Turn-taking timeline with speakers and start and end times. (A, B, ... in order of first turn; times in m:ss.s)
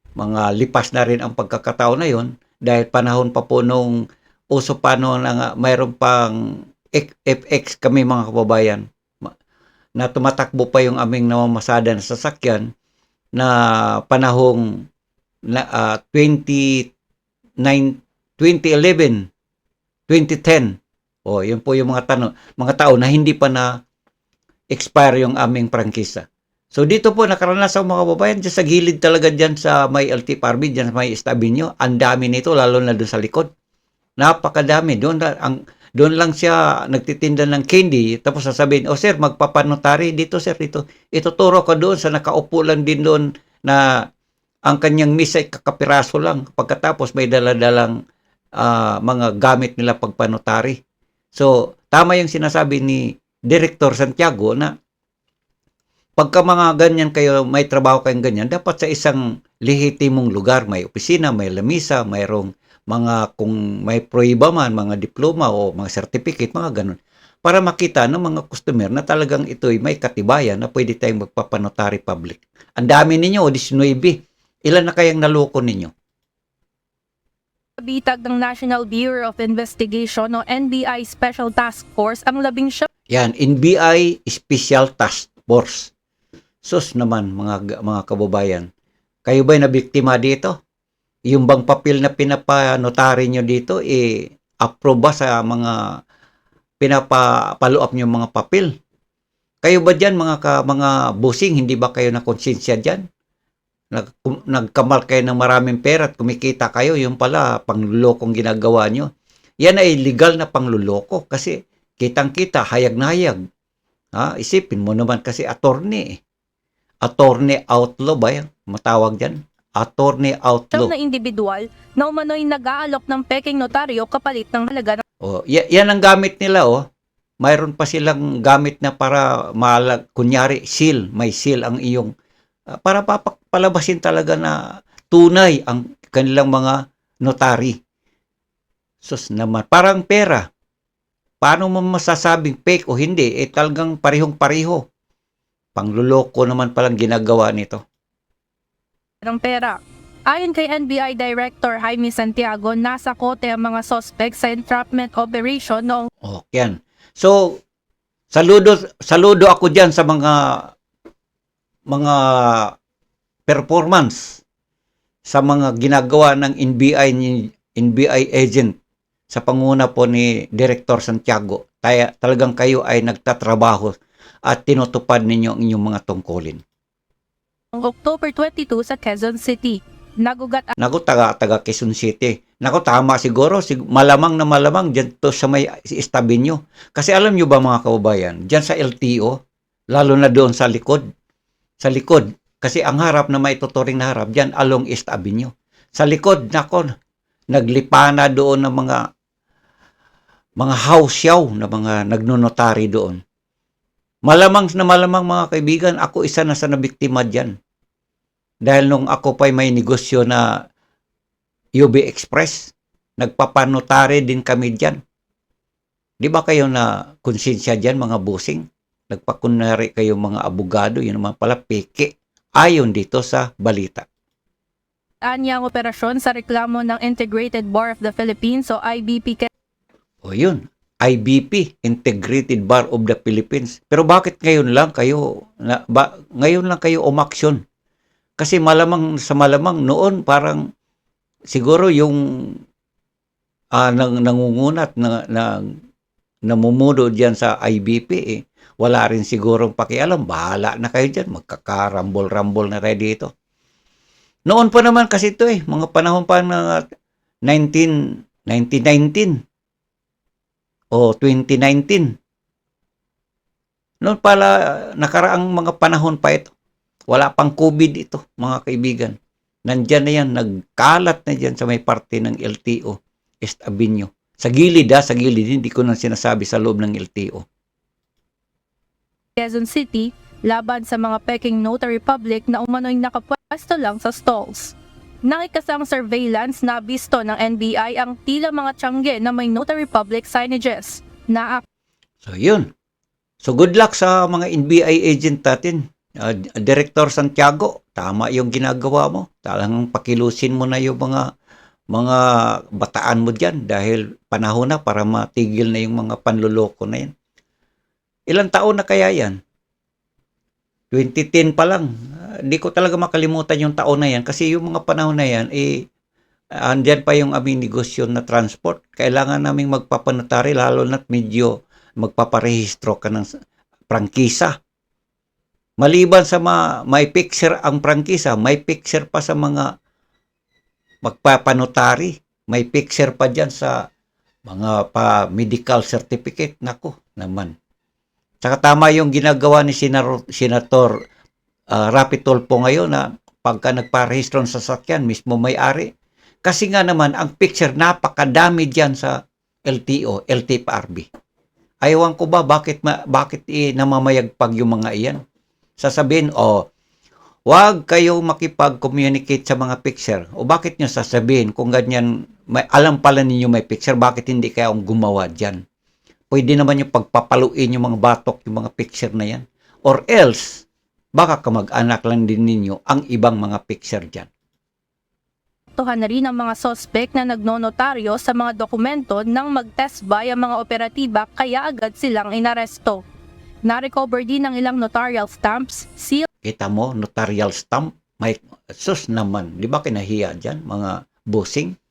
0:00.2-0:03.9 A
0:04.5-0:06.3 A
0:06.9-0:09.3 A
0:10.0-0:12.7 A
0:13.4-0:14.8 A
0:15.5-0:16.8 A
0:17.6-0:19.2 A
0:20.1-0:23.7 A
0:24.7-0:33.5 A
0:34.2-0:43.9 A
0:44.6-0:48.0 A
0:48.6-0:50.8 A
0:51.3-0:54.7 A
0:56.2-1:15.9 A
1:17.8-1:22.9 B
1:23.1-1:25.9 A
1:26.6-1:28.7 A
1:29.2-1:30.6 A
1:31.3-1:35.8 A
1:36.8-1:38.7 A
1:39.6-1:43.0 A
1:43.9-1:49.1 A
1:49.6-1:53.4 A
1:54.1-1:56.2 A
1:57.0-2:00.9 A
2:00.7-2:05.0 B
2:05.2-2:06.8 A
2:07.4-2:12.1 A
2:12.7-2:14.6 A
2:15.1-2:17.8 A
2:19.0-2:20.4 A
2:21.4-2:24.8 A
2:25.7-2:27.8 A
2:29.2-2:36.1 B
2:36.2-2:37.6 A
2:38.3-2:40.7 A
2:41.9-2:42.7 A
2:43.5-2:44.4 A
2:45.3-2:48.7 A
2:49.3-2:53.9 A
2:54.5-2:56.6 A
2:57.7-3:00.7 B
3:00.8-3:09.4 A
3:09.9-3:11.0 A
3:11.8-3:16.9 A
3:17.5-3:19.0 A
3:20.6-3:23.2 A
3:24.2-3:27.5 A
3:28.6-3:30.4 A
3:31.8-3:35.0 A
3:36.2-3:44.0 A
3:45.2-3:49.5 B
3:50.2-3:57.6 A
3:58.4-4:00.6 A
4:01.5-4:02.6 A
4:03.7-4:05.6 A
4:06.5-4:13.3 A
4:14.5-4:16.8 A
4:17.4-4:19.4 A
4:20.9-4:22.1 A
4:24.0-4:26.5 A
4:27.1-4:37.4 A
4:39.4-4:51.6 B
4:52.2-4:52.7 A
4:53.4-5:01.2 A
5:01.9-5:07.1 A
5:08.3-5:09.4 A
5:10.9-5:11.9 A
5:12.4-5:15.8 A
5:16.6-5:23.3 A
5:23.9-5:24.6 A
5:25.8-5:29.7 A
5:31.0-5:33.8 A
5:34.4-5:37.5 A
5:38.4-5:40.9 A
5:41.7-5:45.9 A
5:46.4-5:49.2 A
5:49.7-5:51.0 A
5:51.8-5:55.2 A
5:55.8-5:56.7 A
5:57.5-6:05.6 A
6:06.3-6:10.6 A
6:11.2-6:14.3 A
6:15.7-6:23.0 B
6:23.6-6:26.3 B
6:26.4-6:31.7 A